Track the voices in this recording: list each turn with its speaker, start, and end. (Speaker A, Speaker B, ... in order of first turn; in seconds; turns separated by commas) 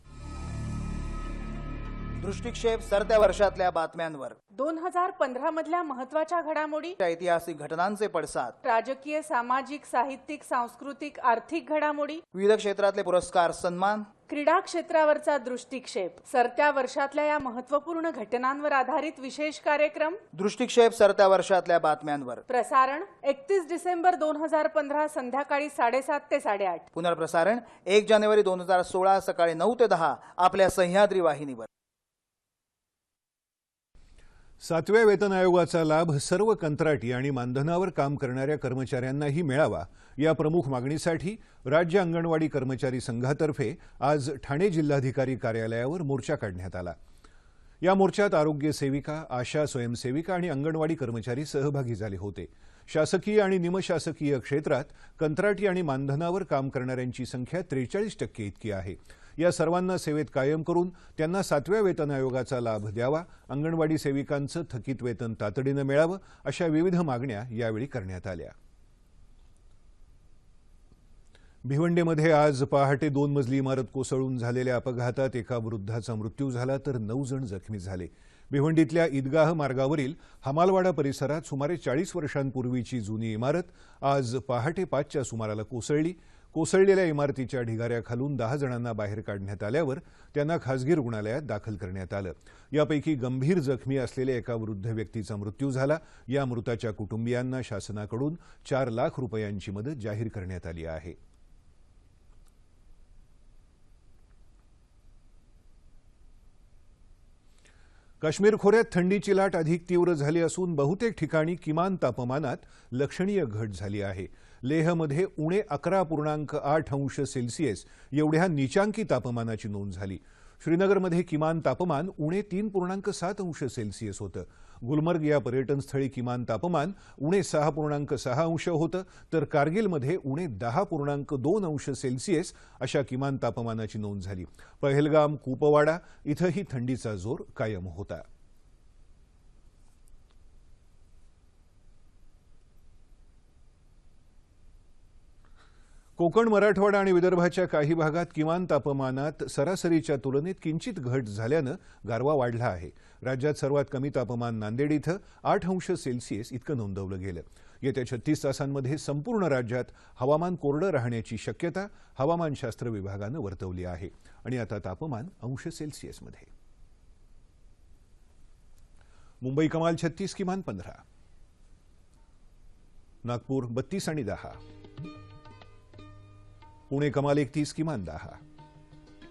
Speaker A: 2.2-4.4, Speaker B: 4.5-7.0, Speaker A: 7.0-8.6, Speaker B: 8.6-12.2, Speaker A: 12.3-14.1, Speaker B: 14.3-20.2, Speaker A: 20.3-22.4, Speaker B: 22.5-26.9, Speaker A: 26.9-31.7, Speaker C: 34.6-47.0, Speaker C: 47.8-68.5, Speaker C: 71.7-101.2, Speaker C: 108.2-138.2, Speaker C: 146.2-166.5, Speaker C: 169.4-171.0, Speaker C: 173.2-174.6, Speaker C: 176.9-178.4